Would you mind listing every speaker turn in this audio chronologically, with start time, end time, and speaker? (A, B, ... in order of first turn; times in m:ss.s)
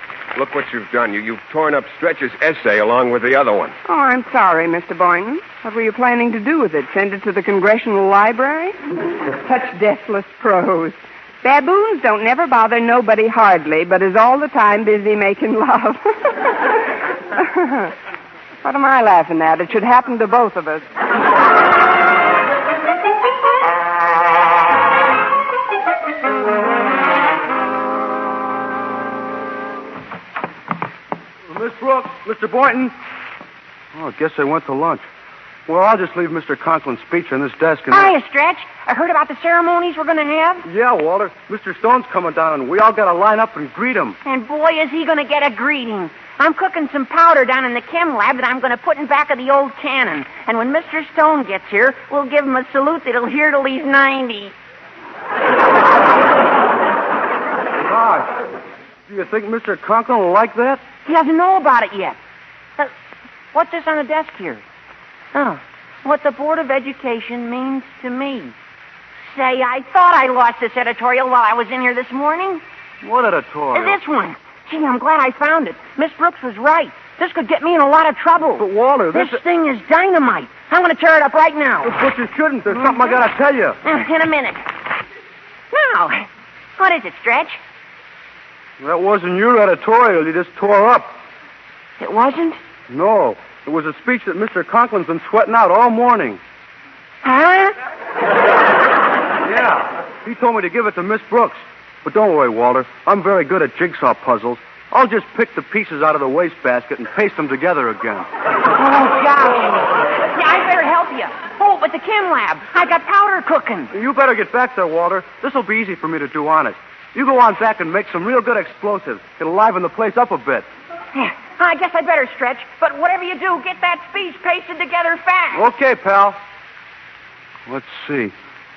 0:00.3-0:03.7 A
0:03.8-0:17.9 B
0:18.6-0:20.9 B
0:31.5-0:32.9 C
0:33.9-0:35.0 C
0:35.7-0:38.1 C
0:37.9-0:40.6 D
0:40.6-0:44.2 C
0:44.2-0:54.5 D
0:57.8-0:58.4 C
0:59.1-1:00.8 C
1:01.0-1:02.2 D
1:03.5-1:04.6 D
1:05.3-1:08.5 D
1:09.3-1:12.6 D
1:13.0-1:14.0 C
1:13.7-1:21.9 D
1:18.6-1:19.4 C
1:21.8-1:23.8 C
1:23.8-1:24.6 D
1:25.7-1:27.6 D
1:28.8-1:31.1 C
1:32.0-1:32.6 D
1:32.9-1:36.4 C
1:37.2-1:37.8 D
1:39.4-1:48.3 C
1:48.7-1:53.9 D
1:53.9-2:00.7 C
2:01.1-2:05.7 D
2:05.5-2:06.4 C
2:07.7-2:08.3 C